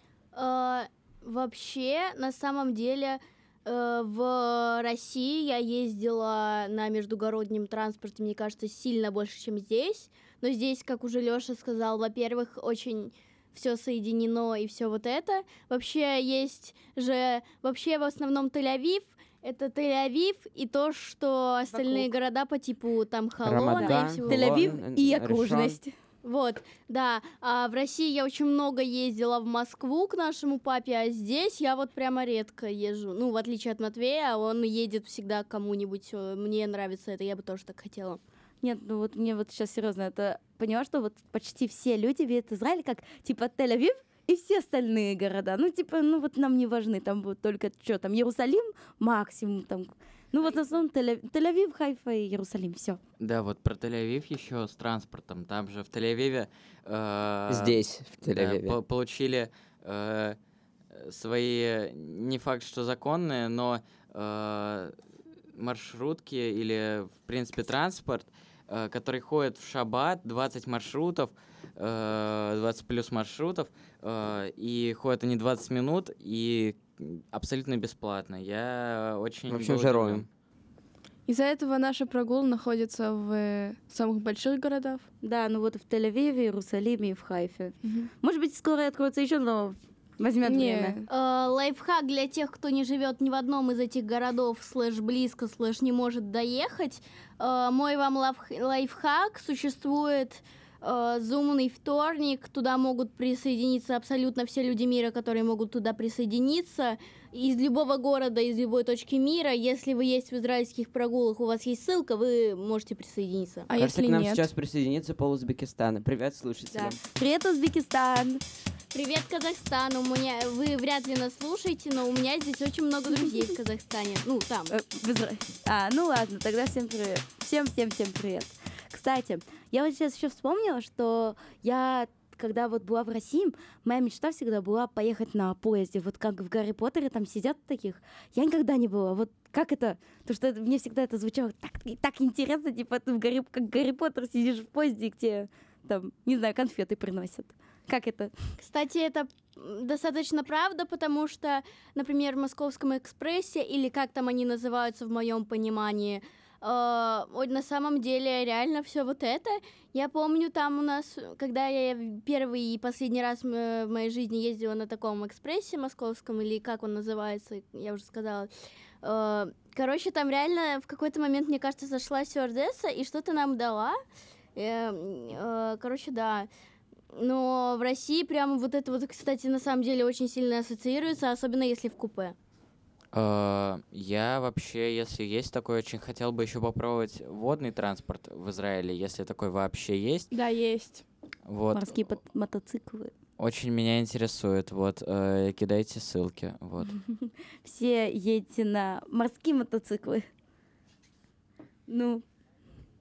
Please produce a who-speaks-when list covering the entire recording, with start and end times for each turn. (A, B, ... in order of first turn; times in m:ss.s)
0:00.3-0:24.6 A
0:21.7-0:22.1 B
0:23.4-0:25.8 C
0:23.8-0:25.9 B
0:26.2-0:38.2 A
0:38.6-0:53.0 B
0:53.2-1:00.4 D
0:57.5-0:58.7 C
1:00.9-1:04.9 D
1:05.5-1:20.3 D
1:19.5-1:20.2 C
1:21.2-1:25.1 E
1:25.2-1:31.0 B
1:27.8-1:28.1 E
1:30.4-1:31.1 E
1:31.1-1:53.7 A
1:53.7-1:54.5 E
1:53.8-1:57.0 C
1:56.7-1:58.4 B
1:58.9-2:04.7 A
2:04.7-2:28.3 B
2:28.6-2:48.5 A
2:49.0-2:54.0 A
2:54.6-2:56.5 A
2:57.1-3:02.4 A
3:03.1-3:10.3 D
3:10.3-3:11.0 E
3:11.4-3:12.2 D
3:11.7-3:13.1 B
3:13.4-3:17.0 D
3:16.9-3:20.3 B
3:21.9-3:22.2 B